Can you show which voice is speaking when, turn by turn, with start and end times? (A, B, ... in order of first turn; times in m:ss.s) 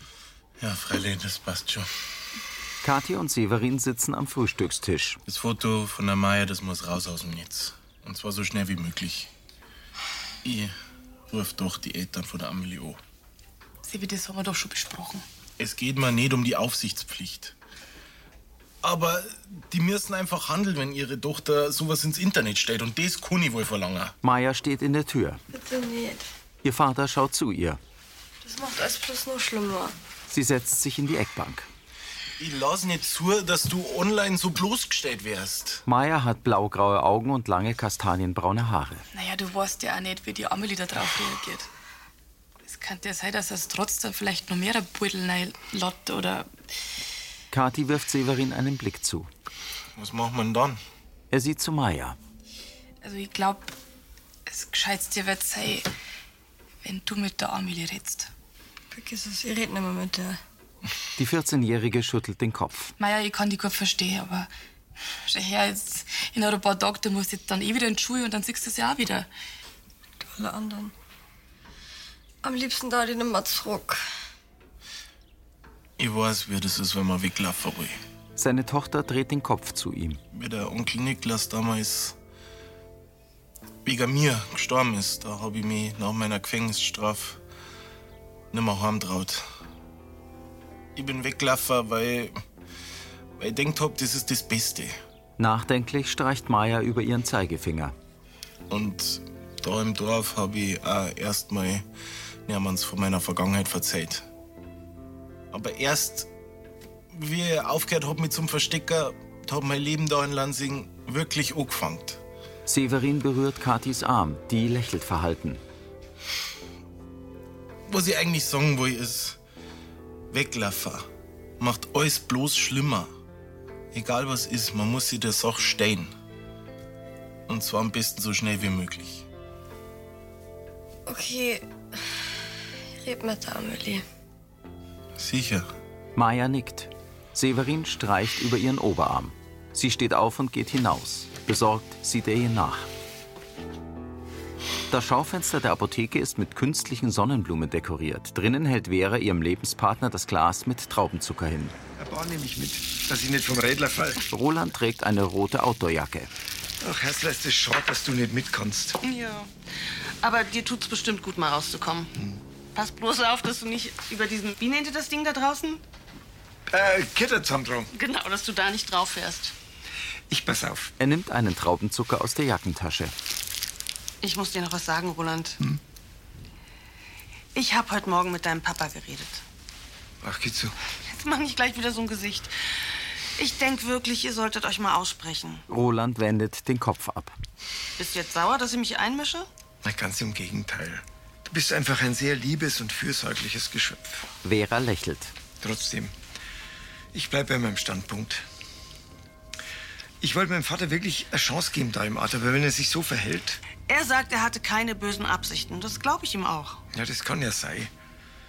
0:00.6-0:01.9 A
0:02.8-0:05.2 B
0:05.3-0:09.3 A
0:10.4-0:10.7 A
0:11.3-0:13.0 A
0:13.8-0:15.2 C
0:15.6-0:17.6 A
0:18.8-0:24.2 A
0:24.2-0:25.4 B
0:25.5-0:26.3 D
0:26.6-0:27.8 B
0:28.4-0:30.0 D
0:30.3-0:31.7 B
0:32.4-0:35.8 A
0:35.9-0:39.0 B
0:39.1-0:41.7 C
0:42.6-0:46.5 C
0:47.5-0:49.3 B
0:50.0-0:50.8 A
0:51.3-0:52.2 B
0:53.0-0:53.7 C
0:54.5-0:55.9 C
0:56.8-0:58.3 C
0:58.9-1:00.4 D
1:01.2-1:02.9 B
1:03.0-1:04.5 C
1:05.3-1:09.3 C
1:10.2-1:10.9 D
1:12.4-1:14.0 D
1:16.0-1:18.0 A
1:18.4-1:20.2 B
1:20.3-1:22.2 A
1:23.8-1:27.4 A
1:28.5-1:29.4 A
1:31.0-1:32.4 A
1:33.4-1:35.0 A
1:35.4-1:37.9 B
1:38.7-1:41.8 A
1:42.5-1:44.3 A
1:45.5-1:46.3 A
1:47.1-1:52.2 A
1:52.7-1:55.6 B
1:57.9-1:59.4 A
2:00.3-2:01.1 A
2:01.6-2:03.1 A
2:03.9-2:06.1 A
2:07.5-2:09.3 A
2:11.1-2:11.7 D
2:13.0-2:14.0 D
2:15.2-2:15.7 A
2:16.2-2:22.9 B
2:24.9-2:31.8 B
2:32.0-2:34.2 E
2:34.3-2:36.3 B
2:36.8-2:39.0 E
2:39.0-2:39.5 F
2:40.2-2:42.1 F
2:42.8-2:45.8 F
2:46.7-2:47.9 E
2:47.9-2:49.5 F
2:50.3-2:50.9 E
2:51.0-2:53.1 B
2:54.2-2:55.6 F
2:57.6-2:59.4 F
3:00.2-3:00.8 E
3:01.1-3:02.5 F
3:03.4-3:05.6 F
3:05.7-3:07.4 B
3:08.0-3:09.5 F
3:09.8-3:14.3 E
3:14.4-3:15.3 B
3:15.6-3:16.1 E
3:17.1-3:18.4 E
3:20.2-3:23.6 E
3:23.9-3:26.8 F
3:26.9-3:27.9 E